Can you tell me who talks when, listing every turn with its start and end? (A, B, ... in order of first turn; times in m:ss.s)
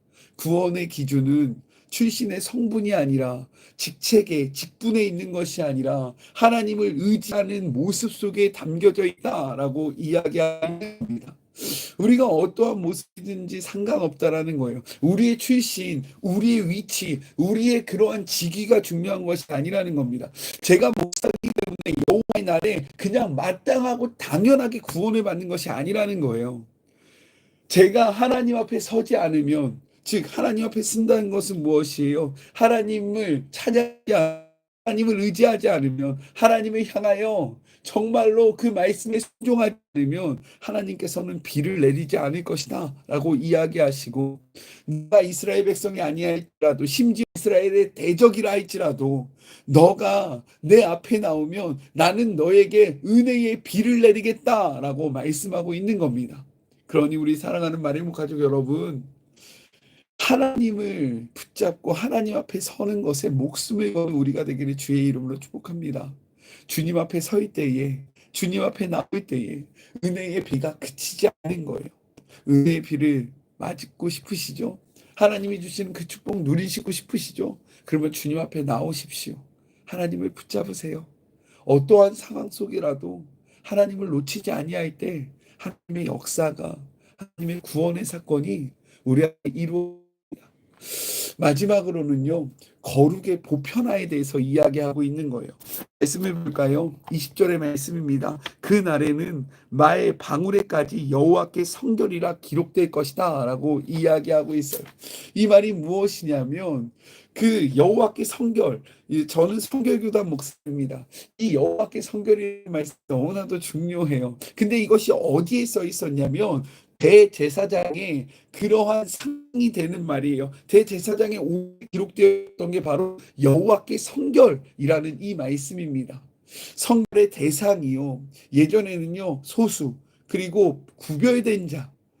0:00.4-0:26.7 A
0:27.7-0:59.1 A
1:00.2-1:21.1 A
1:21.6-2:11.9 A